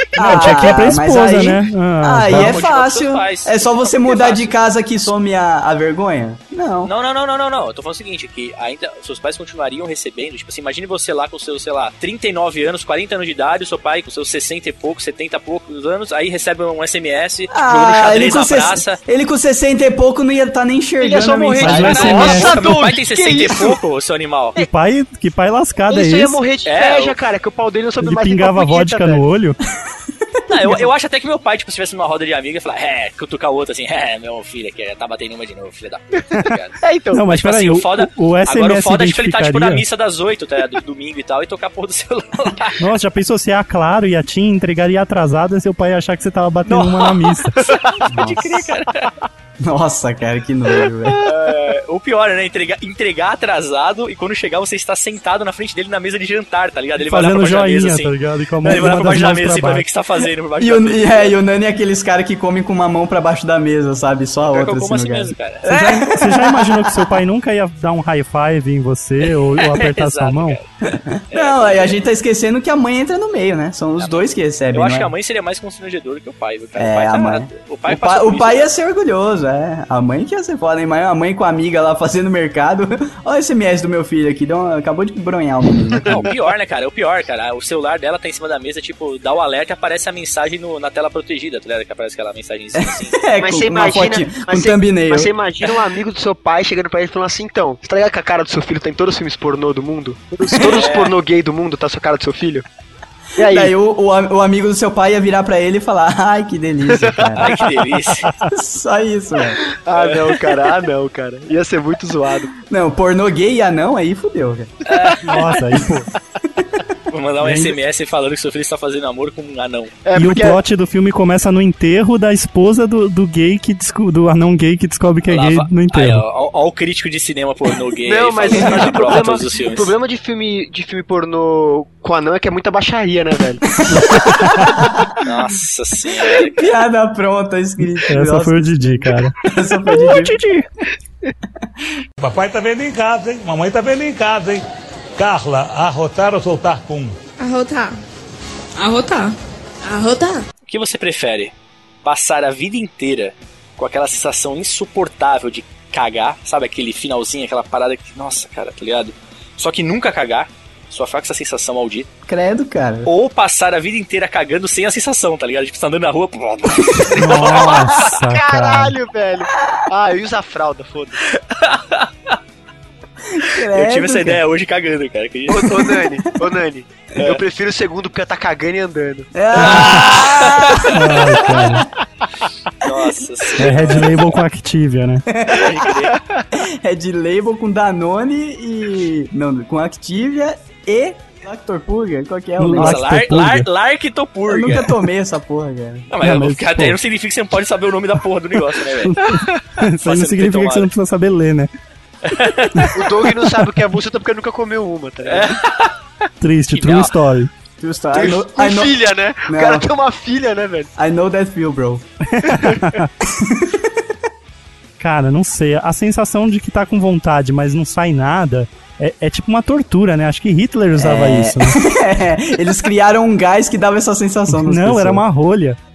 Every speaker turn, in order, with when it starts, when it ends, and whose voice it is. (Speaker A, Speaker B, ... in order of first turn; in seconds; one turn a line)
Speaker A: 0.1-6.9
Speaker B: 0.2-2.6
Speaker C: 0.4-0.7
Speaker C: 2.2-4.6
Speaker C: 6.8-19.0
Speaker A: 17.5-22.4
Speaker D: 21.0-23.8
Speaker B: 21.6-22.5
Speaker C: 21.6-24.6
Speaker B: 24.6-26.4
Speaker D: 25.9-29.2
Speaker C: 26.6-27.2
Speaker B: 28.0-29.6
Speaker C: 30.5-42.9
Speaker D: 36.8-37.2
Speaker B: 37.1-39.8
Speaker B: 42.8-47.6
Speaker C: 46.6-49.2
Speaker A: 48.1-48.5
Speaker A: 49.6-51.2
Speaker C: 51.2-61.4
Speaker B: 57.0-59.9
Speaker A: 60.6-66.9
Speaker C: 64.4-66.4
Speaker B: 66.1-70.6
Speaker C: 69.2-70.7
Speaker A: 70.8-75.1
Speaker C: 71.3-72.0
Speaker C: 74.0-78.7
Speaker A: 76.8-86.3
Speaker C: 86.0-93.2
Speaker A: 92.8-95.3
Speaker D: 93.4-102.7
Speaker C: 100.6-101.2
Speaker D: 103.4-103.7
Speaker A: 103.5-107.5
Speaker D: 106.9-107.4
Speaker C: 107.4-108.3
Speaker A: 108.5-109.6
Speaker D: 109.7-112.5
Speaker C: 109.9-110.8
Speaker A: 112.7-114.7
Speaker C: 114.9-115.6
Speaker B: 115.2-116.1
Speaker C: 117.1-120.0
Speaker B: 117.4-117.8
Speaker D: 120.0-120.6
Speaker B: 120.2-126.2
Speaker C: 125.3-129.9
Speaker D: 128.0-133.7
Speaker A: 133.8-135.2
Speaker B: 133.9-134.9
Speaker C: 135.2-136.7
Speaker A: 136.2-140.4
Speaker B: 138.1-140.7
Speaker E: 142.2-144.6
Speaker E: 145.2-147.2
Speaker F: 147.4-148.0
Speaker F: 148.8-150.4
Speaker C: 150.7-162.1
Speaker A: 162.3-163.1
Speaker C: 163.1-168.3
Speaker B: 167.2-168.9
Speaker D: 167.3-171.2
Speaker C: 171.3-172.4
Speaker A: 173.3-174.4
Speaker C: 173.7-176.0
Speaker D: 175.5-179.3
Speaker A: 179.3-181.0
Speaker C: 179.6-181.8
Speaker B: 179.6-180.2
Speaker B: 180.9-181.8
Speaker C: 182.8-184.4
Speaker B: 183.6-185.2
Speaker A: 185.3-186.0
Speaker C: 185.5-186.2
Speaker A: 186.5-193.0
Speaker B: 192.6-193.7
Speaker C: 192.7-195.0
Speaker A: 194.5-196.1
Speaker C: 196.1-200.9
Speaker B: 196.2-197.0
Speaker B: 199.0-201.7
Speaker C: 202.2-203.0
Speaker B: 202.6-203.0
Speaker D: 202.9-205.6
Speaker C: 205.2-206.0
Speaker B: 206.4-207.5
Speaker C: 206.7-207.2
Speaker A: 207.8-208.9
Speaker D: 208.1-210.9
Speaker A: 209.5-209.9
Speaker A: 211.0-212.1
Speaker B: 212.3-213.1
Speaker A: 213.2-213.9
Speaker B: 215.0-221.8
Speaker A: 220.9-225.2
Speaker B: 224.5-225.8